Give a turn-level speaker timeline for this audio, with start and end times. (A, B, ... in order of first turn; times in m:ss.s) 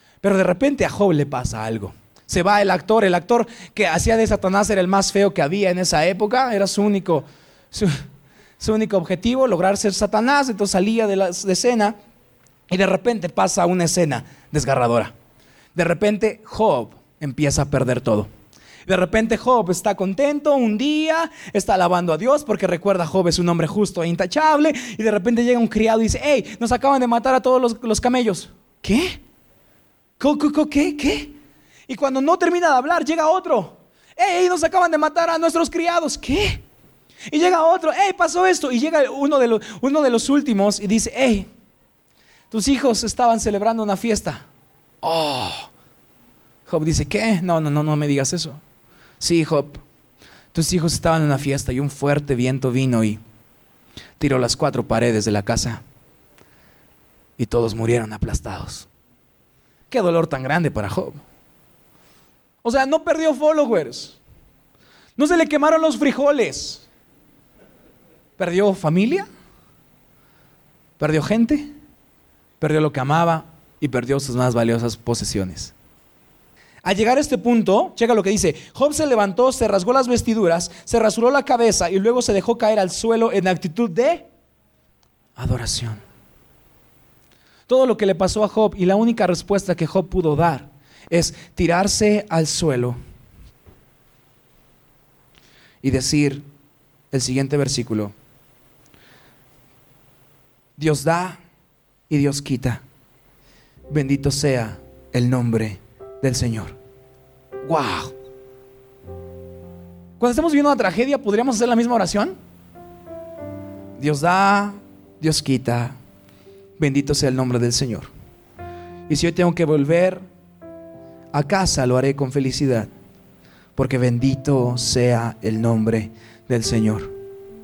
0:00.2-0:08.0 A
0:08.6-0:11.9 A
0:12.7-0:15.1 A
0:15.7-0:18.3 A
0:18.8-0:29.2 A
0:30.2-0:31.3 A
0:31.9-0:36.6 A
0:37.3-0:41.5 A
0:42.5-0:44.4 A
0:45.0-0:45.7 A
0:46.7-0:48.6 A
0:49.2-0:49.8 A
0:50.5-0:53.2 A
0:54.2-0:55.8 A
0:57.4-0:58.9 A
0:59.9-1:01.2 A
1:02.6-1:04.2 A
1:05.2-1:06.8 A
1:08.4-1:09.2 A
1:11.0-1:11.7 A
1:12.6-1:15.7 A
1:16.8-1:24.3 A
1:25.4-1:26.0 A
1:27.7-1:33.0 A
1:35.8-1:36.4 A
1:37.1-1:38.1 A
1:40.8-1:41.4 A
1:42.1-1:42.8 A
1:43.9-1:46.8 A
1:47.6-1:48.1 A
1:50.2-1:52.3 A
1:54.0-1:56.0 A
1:56.8-1:58.1 A
1:59.1-2:00.2 A
2:01.3-2:02.9 A
2:03.8-2:07.1 A